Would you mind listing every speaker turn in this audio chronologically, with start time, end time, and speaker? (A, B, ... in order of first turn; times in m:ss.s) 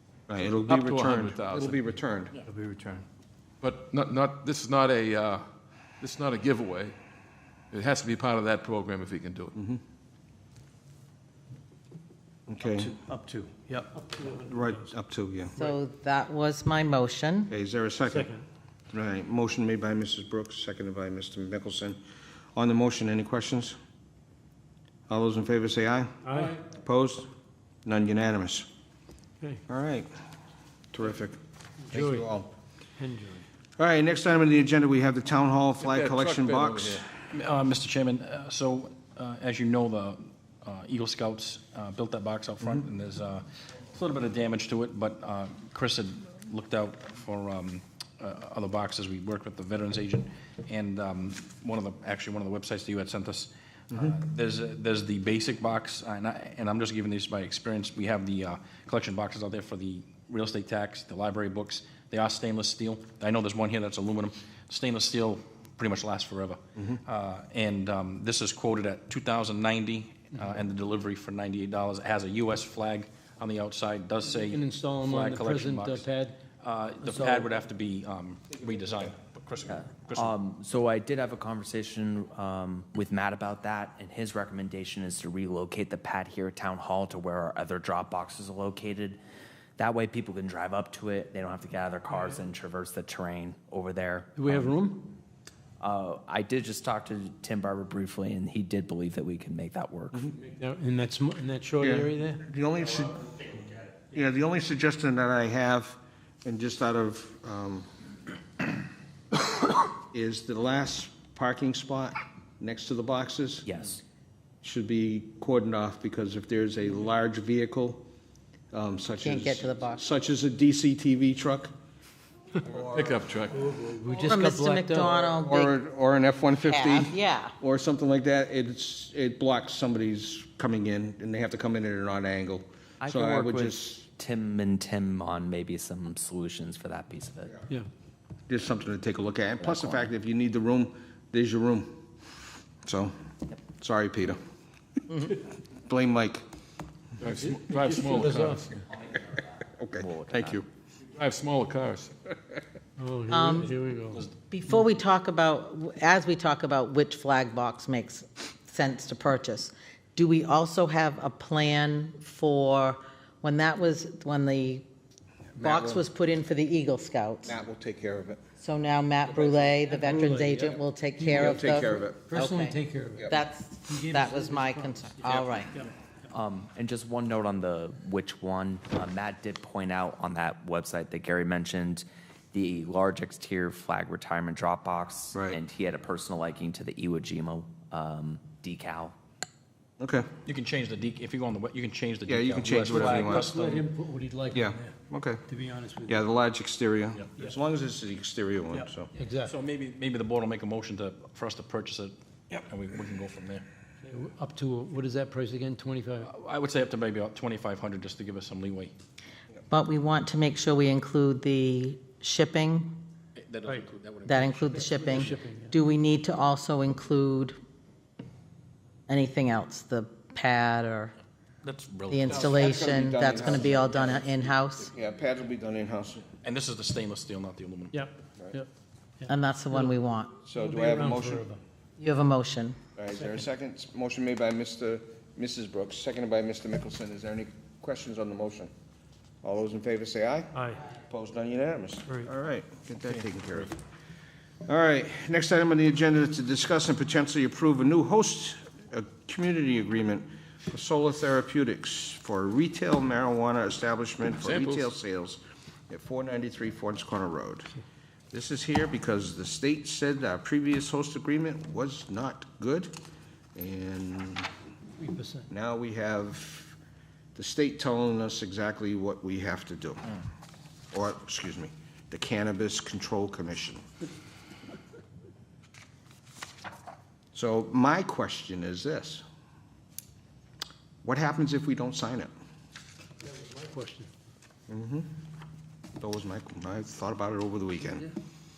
0:00.3-0:02.3 A
0:00.6-0:01.8 B
0:02.5-0:03.0 C
0:03.6-0:05.5 B
0:06.0-0:06.9 B
0:07.7-0:09.5 B
0:12.5-0:12.9 A
0:12.6-0:14.9 C
0:14.4-0:15.5 A
0:15.6-0:17.5 D
0:17.5-0:18.3 A
0:18.1-0:18.4 C
0:18.9-0:22.0 A
0:22.5-0:23.8 A
0:25.1-0:27.3 A
0:26.2-0:26.6 C
0:27.8-0:28.7 A
0:29.7-0:30.1 A
0:30.9-0:31.4 A
0:31.9-0:32.3 C
0:31.9-0:32.5 A
0:33.0-0:33.4 C
0:33.8-0:37.1 A
0:35.8-0:37.1 B
0:37.3-1:16.0 E
1:14.3-1:16.4 C
1:16.6-1:20.4 E
1:17.0-1:17.5 C
1:19.7-1:29.2 F
1:29.8-1:34.7 F
1:34.4-1:35.1 C
1:35.8-1:40.2 F
1:40.3-1:42.4 C
1:41.8-1:47.9 A
1:50.0-1:53.6 A
1:53.6-1:54.0 F
1:54.6-1:58.1 A
1:58.7-2:01.7 A
1:59.2-2:00.0 D
2:02.6-2:03.2 A
2:02.9-2:03.7 B
2:03.5-2:05.2 C
2:04.1-2:05.7 D
2:05.2-2:14.0 A
2:06.6-2:07.5 D
2:13.0-2:17.6 F
2:18.5-2:22.0 A
2:19.6-2:20.1 F
2:22.8-2:23.1 A
2:23.7-2:24.4 A
2:25.3-2:26.4 A
2:27.2-2:28.8 B
2:27.4-2:28.7 C
2:29.8-2:30.1 A
2:30.0-2:30.6 F
2:30.3-2:30.6 B
2:31.1-2:32.1 B
2:33.0-2:34.8 C
2:33.3-2:33.7 D
2:34.4-2:44.8 D
2:45.6-2:46.0 A
2:45.6-2:47.5 D
2:47.4-2:48.4 A
2:48.6-2:55.8 D
2:49.7-2:55.9 C
2:51.3-2:52.2 A
2:56.3-3:09.1 F
3:05.3-3:05.6 A
3:10.0-3:10.2 A
3:10.4-3:13.8 E
3:12.2-3:13.5 A
3:12.8-3:14.9 C
3:14.5-3:15.4 A
3:15.5-3:16.2 C
3:16.0-3:19.1 A
3:18.7-3:19.6 C
3:19.2-3:23.6 E
3:24.0-3:26.3 C
3:26.2-3:28.9 E
3:29.7-3:32.9 D
3:33.4-3:35.3 E
3:34.3-3:37.6 D
3:34.5-3:35.7 C
3:39.1-3:41.1 D
3:41.6-3:42.7 E
3:42.1-3:44.9 D
3:42.3-3:46.2 A
3:46.4-3:48.0 E
3:47.9-3:48.7 C
3:49.2-3:50.0 C
3:49.3-3:50.4 D
3:50.5-3:51.5 A
3:50.5-3:51.6 C
3:52.0-3:52.8 D
3:53.0-3:58.7 A
3:59.4-4:03.7 A
4:00.5-4:00.8 C
4:04.6-4:17.7 A
4:14.4-4:14.9 B
4:18.3-4:22.9 A
4:23.5-4:24.5 A
4:25.0-4:25.5 C
4:25.5-4:26.8 A
4:27.3-4:30.1 A
4:30.9-4:33.8 A
4:37.3-4:39.2 A
4:41.0-4:42.3 A
4:43.2-4:44.1 C
4:44.7-4:45.1 A
4:46.0-4:48.1 A